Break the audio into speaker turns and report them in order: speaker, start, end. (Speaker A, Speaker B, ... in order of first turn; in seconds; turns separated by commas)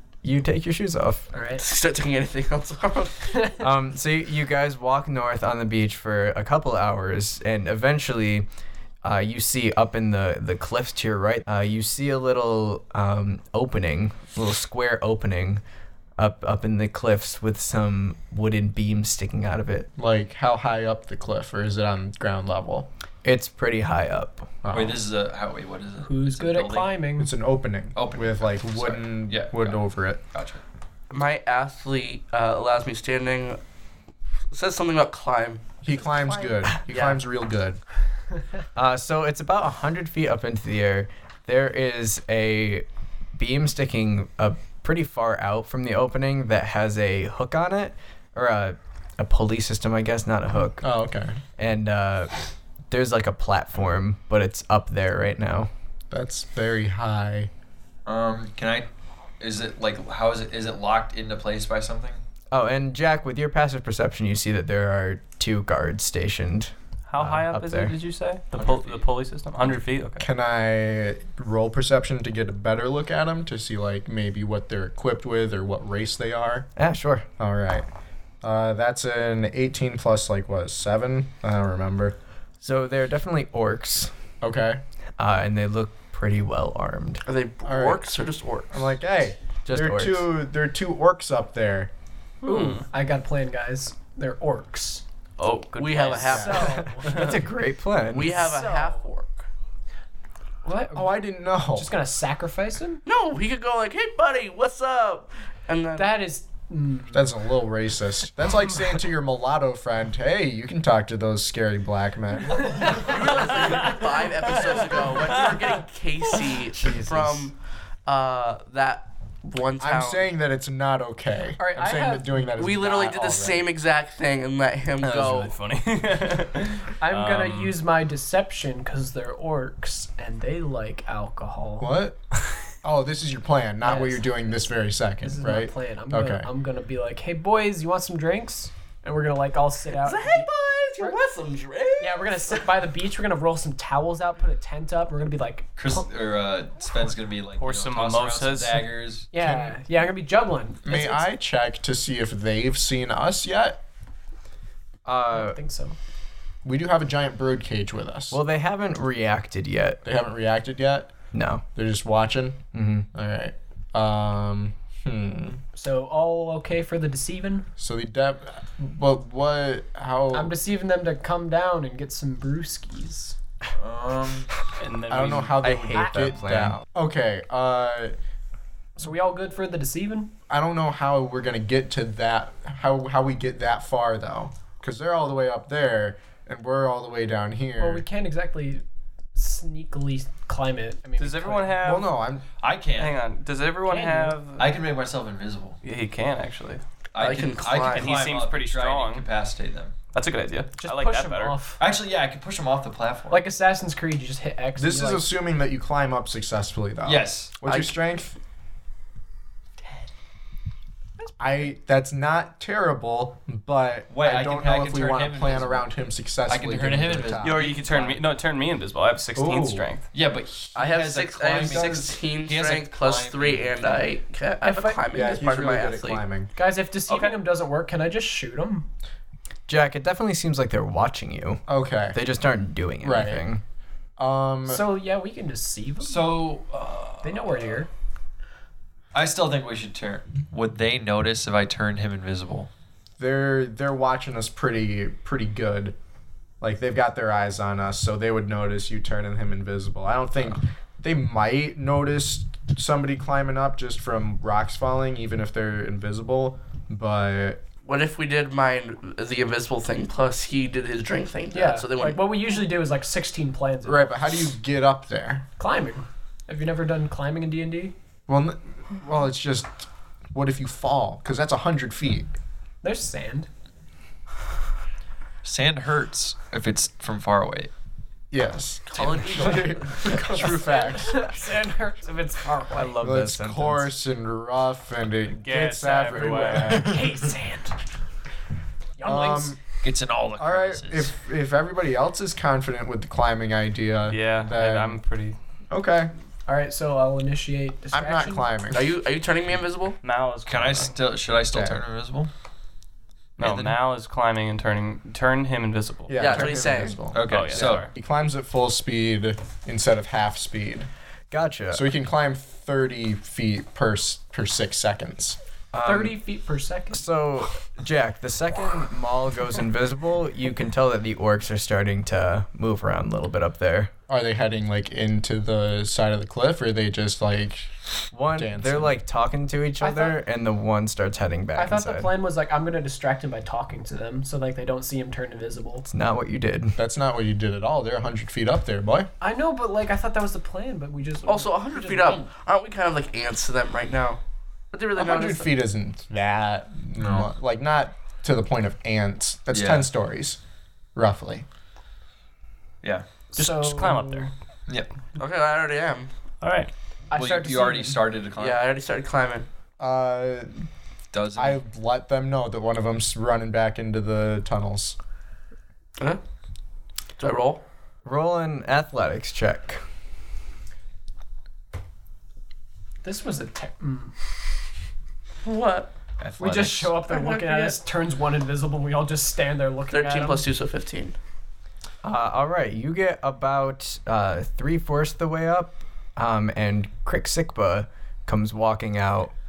Speaker A: 0.2-1.3, Speaker B: 1.3-1.6, Speaker C: 1.6-3.6, Speaker A: 3.6-8.5, Speaker A: 9.0-15.6, Speaker A: 16.2-19.9, Speaker D: 20.0-22.9, Speaker A: 23.2-24.5, Speaker D: 24.6-25.0, Speaker E: 24.7-27.0, Speaker B: 26.0-27.3, Speaker D: 27.2-30.2, Speaker E: 27.9-30.6, Speaker C: 31.1-33.6, Speaker C: 34.5-37.2, Speaker D: 35.8-37.8, Speaker A: 38.8-50.9, Speaker D: 50.8-51.4, Speaker A: 51.6-52.3, Speaker A: 52.9-55.7, Speaker D: 56.1-57.5, Speaker E: 58.1-58.9, Speaker E: 59.4-62.2, Speaker A: 62.5-67.9, Speaker F: 67.1-70.3, Speaker E: 68.5-69.1, Speaker D: 70.2-76.7, Speaker A: 76.8-77.3, Speaker D: 77.4-77.8, Speaker D: 78.4-82.2, Speaker A: 82.6-84.1, Speaker D: 84.4-84.8, Speaker A: 85.2-87.2, Speaker C: 87.2-88.8, Speaker D: 87.7-88.1, Speaker D: 88.7-91.9, Speaker A: 89.7-90.3, Speaker B: 92.4-95.0, Speaker F: 92.5-92.8, Speaker F: 95.4-96.4, Speaker C: 95.7-97.0, Speaker B: 96.0-97.3, Speaker D: 96.3-96.7, Speaker A: 96.8-98.4, Speaker F: 97.0-97.4, Speaker C: 98.1-99.5, Speaker B: 98.3-99.1, Speaker B: 100.7-103.0, Speaker D: 100.9-101.9, Speaker C: 103.0-106.1, Speaker B: 106.0-107.4, Speaker D: 107.1-113.0, Speaker E: 112.7-113.1, Speaker C: 112.8-117.5, Speaker F: 115.2-115.5, Speaker A: 116.8-117.5, Speaker C: 118.1-120.3, Speaker D: 119.8-123.7, Speaker B: 121.6-122.6, Speaker C: 122.6-125.5, Speaker F: 125.0-127.8, Speaker B: 127.0-132.0, Speaker D: 131.8-132.2, Speaker D: 132.8-136.5, Speaker B: 133.8-134.3, Speaker B: 135.2-141.2, Speaker C: 139.9-142.7, Speaker B: 142.0-146.1, Speaker E: 145.8-149.3, Speaker B: 146.8-147.1, Speaker F: 147.6-148.9, Speaker B: 149.3-151.2, Speaker D: 149.4-149.8, Speaker D: 150.8-153.8, Speaker A: 155.1-155.6, Speaker B: 155.3-156.0, Speaker D: 156.6-158.4, Speaker A: 158.3-160.0, Speaker D: 160.0-161.1, Speaker A: 161.3-161.6, Speaker D: 161.8-165.6, Speaker A: 162.7-163.1, Speaker B: 165.8-167.7, Speaker D: 167.8-170.6, Speaker B: 170.3-173.4, Speaker E: 173.8-174.5, Speaker F: 174.8-175.6, Speaker D: 175.1-178.2, Speaker A: 175.6-176.8, Speaker B: 175.9-176.3, Speaker B: 179.0-180.3, Speaker D: 180.5-188.1, Speaker B: 187.8-188.8, Speaker B: 189.3-191.8, Speaker F: 191.2-192.1, Speaker D: 191.8-192.4, Speaker E: 192.6-193.2, Speaker F: 193.0-194.7, Speaker B: 193.9-194.4, Speaker E: 194.6-195.8, Speaker F: 195.8-196.8, Speaker E: 197.1-199.9, Speaker C: 197.2-198.2, Speaker F: 197.8-199.3, Speaker F: 200.1-201.6, Speaker B: 200.8-201.8, Speaker E: 201.8-203.4, Speaker B: 203.3-205.3, Speaker D: 204.8-208.4, Speaker E: 207.1-207.7, Speaker D: 211.4-217.7, Speaker E: 214.1-215.9, Speaker E: 216.5-218.2, Speaker F: 217.4-220.1, Speaker D: 219.4-219.9, Speaker E: 220.1-223.8, Speaker C: 220.8-226.2, Speaker D: 221.6-222.1, Speaker B: 224.6-225.1, Speaker D: 225.1-226.5, Speaker B: 226.6-228.9, Speaker F: 227.1-227.4, Speaker A: 229.7-231.6, Speaker D: 231.7-232.2, Speaker A: 232.1-233.6, Speaker D: 233.0-233.4, Speaker D: 234.2-234.9, Speaker B: 234.7-236.3, Speaker E: 236.0-237.8, Speaker B: 237.2-237.9, Speaker E: 239.1-242.7, Speaker D: 243.2-245.9, Speaker D: 246.6-257.6, Speaker C: 257.9-262.2, Speaker B: 261.5-264.1, Speaker D: 263.9-265.4, Speaker B: 265.6-267.9, Speaker D: 268.3-272.3, Speaker B: 272.8-273.5, Speaker E: 275.4-277.7, Speaker D: 278.3-281.2, Speaker C: 278.9-280.9, Speaker B: 280.3-283.0, Speaker A: 282.7-283.9, Speaker D: 283.0-287.2, Speaker F: 285.4-286.9, Speaker B: 286.7-287.8, Speaker B: 289.0-289.6, Speaker D: 289.0-289.6, Speaker E: 289.8-291.1, Speaker D: 290.4-295.0, Speaker F: 294.1-295.4, Speaker D: 295.7-296.1, Speaker B: 296.5-298.6, Speaker D: 297.9-299.0, Speaker C: 298.7-300.0, Speaker F: 300.0-301.0, Speaker E: 300.5-302.3, Speaker D: 301.5-301.8, Speaker E: 303.4-303.8, Speaker F: 303.4-306.5, Speaker D: 306.1-310.9, Speaker C: 306.2-307.1, Speaker E: 307.1-307.9, Speaker F: 307.2-307.9, Speaker A: 311.3-311.9, Speaker D: 311.7-315.4, Speaker A: 315.7-316.2, Speaker B: 315.8-317.1, Speaker A: 316.9-323.9, Speaker D: 324.1-327.7, Speaker A: 328.1-332.1, Speaker D: 328.3-328.9, Speaker B: 329.8-330.2, Speaker B: 331.6-335.9, Speaker A: 335.9-336.8, Speaker D: 336.8-339.1, Speaker B: 339.2-342.3, Speaker C: 341.3-344.2, Speaker C: 344.7-345.5, Speaker D: 345.0-350.4, Speaker E: 347.0-347.3, Speaker E: 349.5-349.9, Speaker D: 350.9-351.4, Speaker B: 353.3-354.3, Speaker F: 353.4-354.3, Speaker C: 355.2-356.1, Speaker F: 356.4-356.7, Speaker B: 357.1-358.0, Speaker E: 357.1-358.6, Speaker C: 358.4-359.5, Speaker D: 359.8-360.7, Speaker E: 361.1-361.6, Speaker D: 361.4-365.0, Speaker C: 367.2-367.6, Speaker A: 368.1-369.8, Speaker B: 373.0-374.1, Speaker C: 375.4-375.9, Speaker E: 376.2-377.0, Speaker B: 376.4-380.5, Speaker C: 377.0-377.8, Speaker C: 379.9-381.1, Speaker A: 382.0-389.3